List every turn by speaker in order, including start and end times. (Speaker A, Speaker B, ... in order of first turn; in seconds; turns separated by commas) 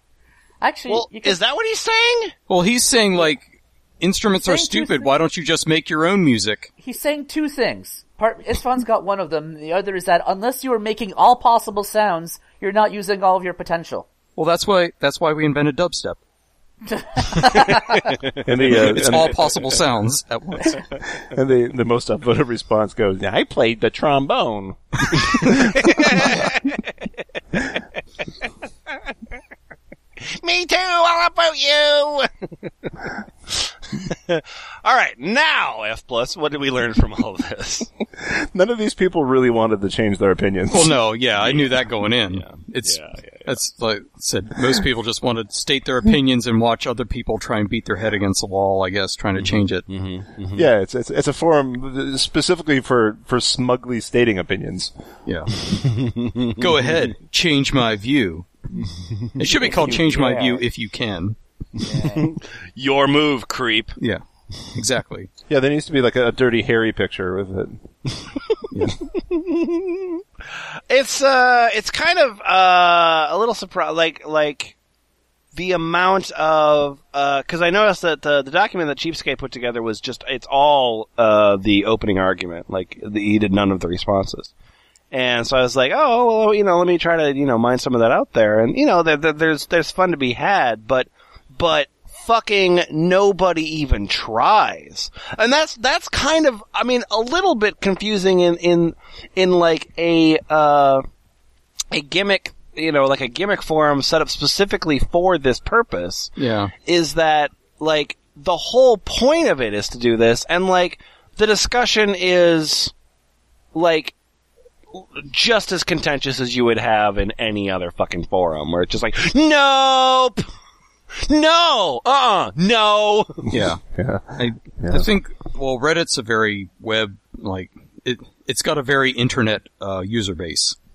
Speaker A: 0.6-1.4, Speaker B: 0.9-2.3, Speaker C: 2.5-3.5, Speaker C: 4.0-6.7, Speaker A: 4.3-5.1, Speaker A: 6.8-14.1, Speaker C: 14.4-16.2, Speaker A: 16.9-18.1, Speaker D: 18.4-19.5, Speaker C: 18.7-20.9, Speaker D: 21.1-26.5, Speaker B: 25.1-26.8, Speaker B: 30.2-32.3, Speaker B: 33.5-37.9, Speaker D: 38.2-41.0, Speaker C: 40.7-49.9, Speaker B: 41.4-41.7, Speaker B: 42.3-43.5, Speaker B: 49.4-50.7, Speaker D: 50.5-54.9, Speaker C: 55.3-55.7, Speaker B: 55.6-56.7, Speaker C: 56.6-58.5, Speaker C: 59.4-61.4, Speaker A: 59.6-60.6, Speaker A: 61.8-62.3, Speaker B: 61.8-64.0, Speaker C: 64.0-65.3, Speaker D: 65.5-67.8, Speaker C: 68.7-69.0, Speaker B: 69.1-74.8, Speaker B: 75.5-84.5, Speaker B: 85.1-101.0, Speaker B: 101.9-112.9, Speaker C: 106.4-106.7, Speaker B: 113.7-114.2, Speaker B: 114.9-120.5, Speaker B: 121.2-123.5, Speaker C: 123.5-123.8, Speaker D: 123.9-125.1, Speaker C: 124.4-130.8